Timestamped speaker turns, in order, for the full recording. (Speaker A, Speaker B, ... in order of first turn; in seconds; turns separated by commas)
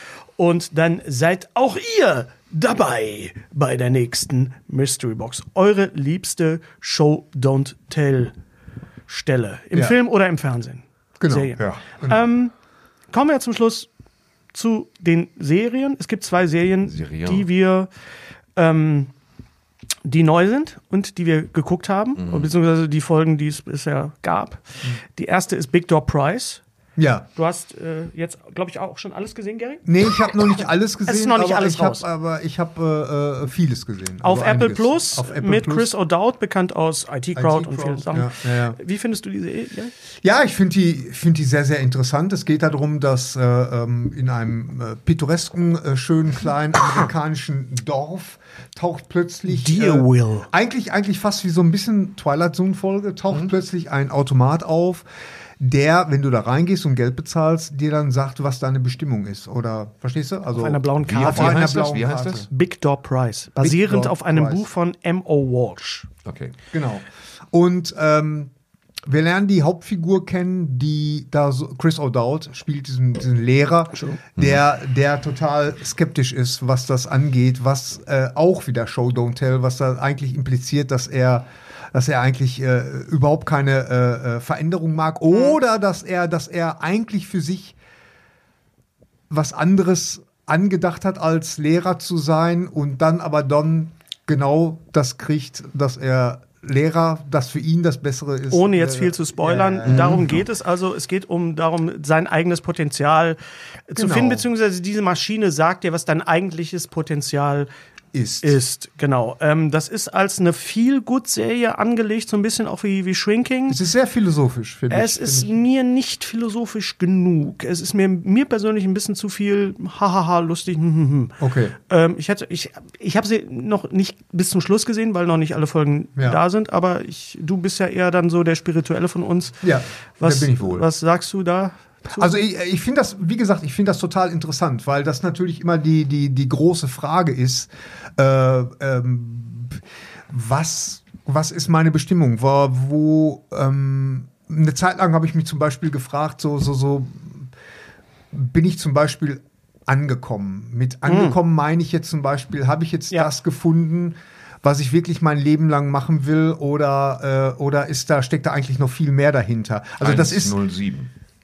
Speaker A: 0.4-8.3, Speaker A: 9.1-12.5, Speaker B: 11.2-12.2, Speaker A: 13.1-13.9, Speaker A: 14.5-17.9, Speaker C: 16.8-17.5, Speaker A: 18.6-19.1, Speaker A: 20.1-26.6, Speaker C: 22.2-22.5, Speaker B: 27.0-27.3, Speaker A: 27.4-29.9, Speaker B: 29.9-35.9, Speaker A: 31.1-32.0, Speaker A: 34.2-39.9, Speaker B: 37.4-38.8, Speaker B: 40.2-55.0, Speaker A: 49.5-50.5, Speaker B: 55.6-62.5, Speaker A: 60.5-61.9, Speaker C: 61.0-62.5, Speaker A: 62.5-66.1, Speaker B: 63.6-64.7, Speaker C: 66.2-66.5, Speaker B: 66.7-68.5, Speaker B: 69.1-87.8, Speaker A: 85.3-85.6, Speaker B: 89.3-100.3, Speaker A: 98.5-103.4, Speaker C: 99.8-100.4, Speaker A: 103.9-107.7, Speaker B: 104.0-104.5, Speaker B: 108.1-108.6, Speaker A: 108.4-113.8, Speaker B: 113.7-115.5, Speaker A: 114.9-121.3, Speaker B: 121.4-121.8, Speaker A: 121.9-129.7, Speaker B: 129.6-130.9, Speaker A: 130.2-132.3, Speaker B: 132.1-147.5, Speaker B: 148.3-160.6, Speaker A: 151.1-151.4, Speaker C: 160.0-161.1